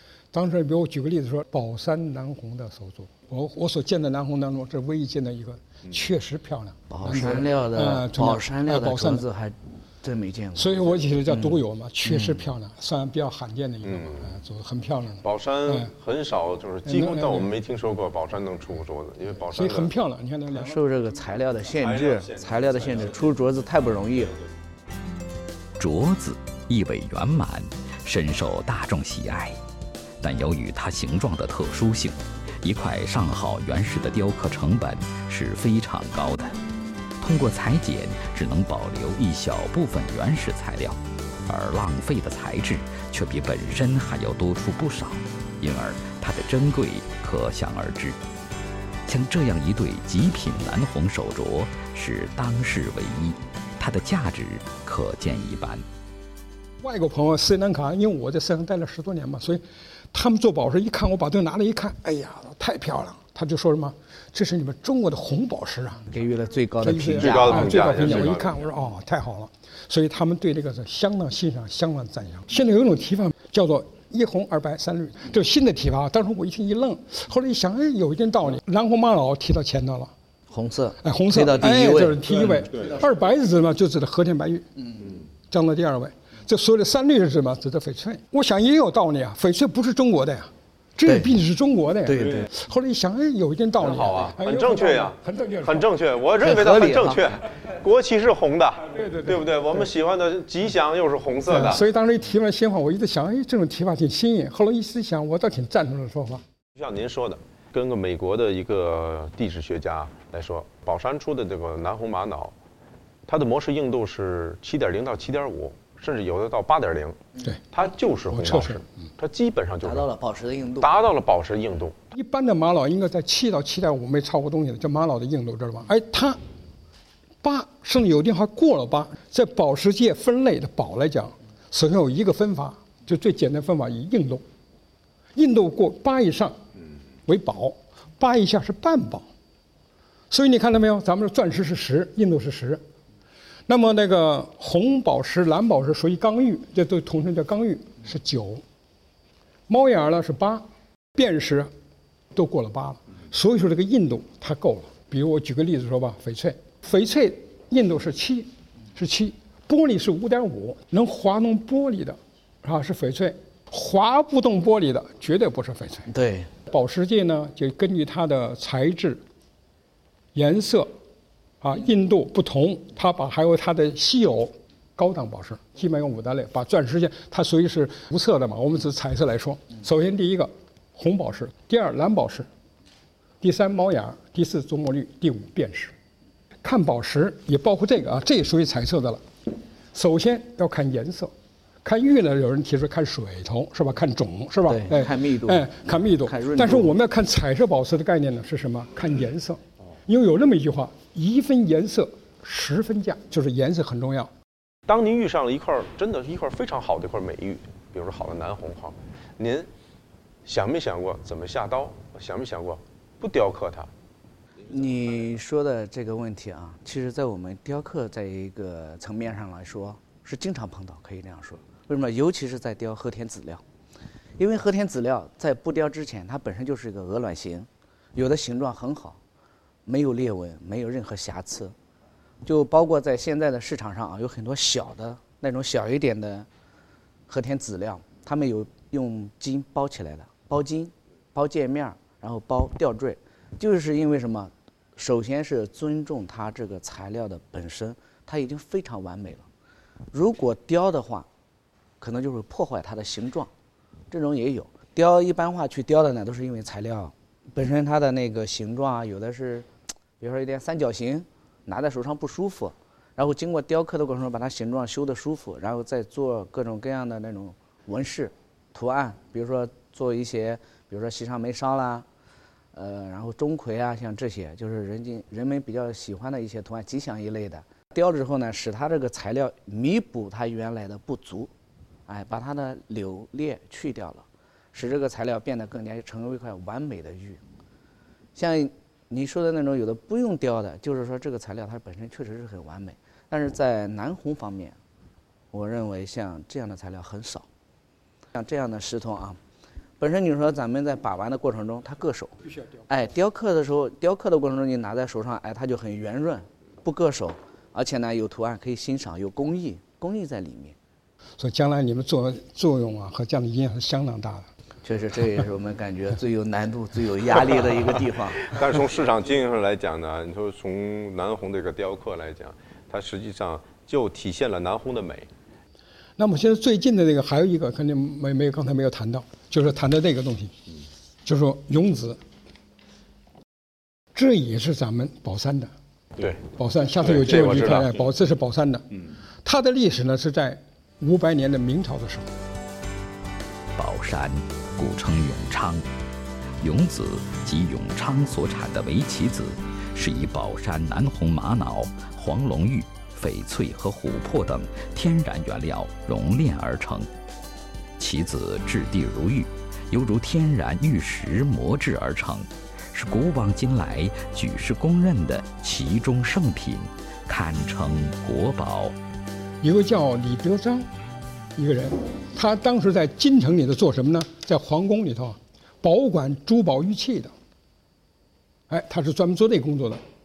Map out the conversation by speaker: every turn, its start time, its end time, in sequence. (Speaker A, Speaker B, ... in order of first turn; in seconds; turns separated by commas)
Speaker A: 0.3-9.2, Speaker B: 6.9-11.5, Speaker A: 10.6-15.9, Speaker B: 12.0-12.4, Speaker C: 13.9-14.3, Speaker C: 15.2-19.9, Speaker A: 16.8-17.5, Speaker A: 19.5-20.8, Speaker B: 20.5-24.4, Speaker C: 21.8-23.3, Speaker D: 25.8-29.6, Speaker D: 30.2-36.6, Speaker D: 37.2-48.2, Speaker D: 49.0-55.8, Speaker A: 56.8-66.0, Speaker B: 66.1-68.3, Speaker A: 66.8-80.1, Speaker C: 67.2-68.5, Speaker B: 80.5-82.6, Speaker A: 81.0-84.7, Speaker A: 85.5-95.8, Speaker B: 92.0-92.5, Speaker C: 93.8-101.8, Speaker B: 96.4-97.3, Speaker A: 99.0-99.4, Speaker A: 101.5-106.4, Speaker C: 106.8-112.5, Speaker C: 113.3-117.2, Speaker C: 117.7-120.1, Speaker A: 118.3-118.8, Speaker B: 119.8-120.9, Speaker C: 120.8-121.9, Speaker A: 122.1-126.4, Speaker A: 127.4-134.4, Speaker A: 135.3-136.6, Speaker A: 137.2-139.2, Speaker A: 140.3-142.8, Speaker A: 143.7-148.6, Speaker A: 149.7-151.7, Speaker A: 152.3-166.1, Speaker B: 166.1-166.5, Speaker A: 166.7-169.2, Speaker A: 170.3-170.9, Speaker A: 171.6-182.5, Speaker A: 183.4-185.9, Speaker A: 186.6-189.2, Speaker A: 189.9-191.3, Speaker A: 191.8-204.3, Speaker B: 194.7-196.9, Speaker C: 204.9-209.7, Speaker C: 210.4-213.9, Speaker B: 214.6-223.6, Speaker B: 224.4-229.2, Speaker B: 229.9-231.7, Speaker B: 232.4-236.5, Speaker B: 237.3-249.5, Speaker B: 250.1-251.3, Speaker B: 252.0-253.5, Speaker B: 254.1-272.1, Speaker B: 272.7-281.5, Speaker B: 282.1-287.4, Speaker B: 288.4-294.8, Speaker B: 295.5-297.5, Speaker B: 298.3-299.4, Speaker B: 300.0-302.3, Speaker B: 302.9-310.8, Speaker A: 311.4-314.5, Speaker B: 314.8-318.6, Speaker C: 318.5-325.3, Speaker A: 326.2-330.5, Speaker A: 331.2-332.2, Speaker A: 334.1-335.7, Speaker A: 336.4-338.9, Speaker C: 337.0-337.9, Speaker A: 339.4-342.3, Speaker D: 343.8-345.9, Speaker D: 346.6-357.1, Speaker D: 358.0-368.9, Speaker A: 369.6-370.9, Speaker A: 371.6-377.3, Speaker A: 378.7-380.0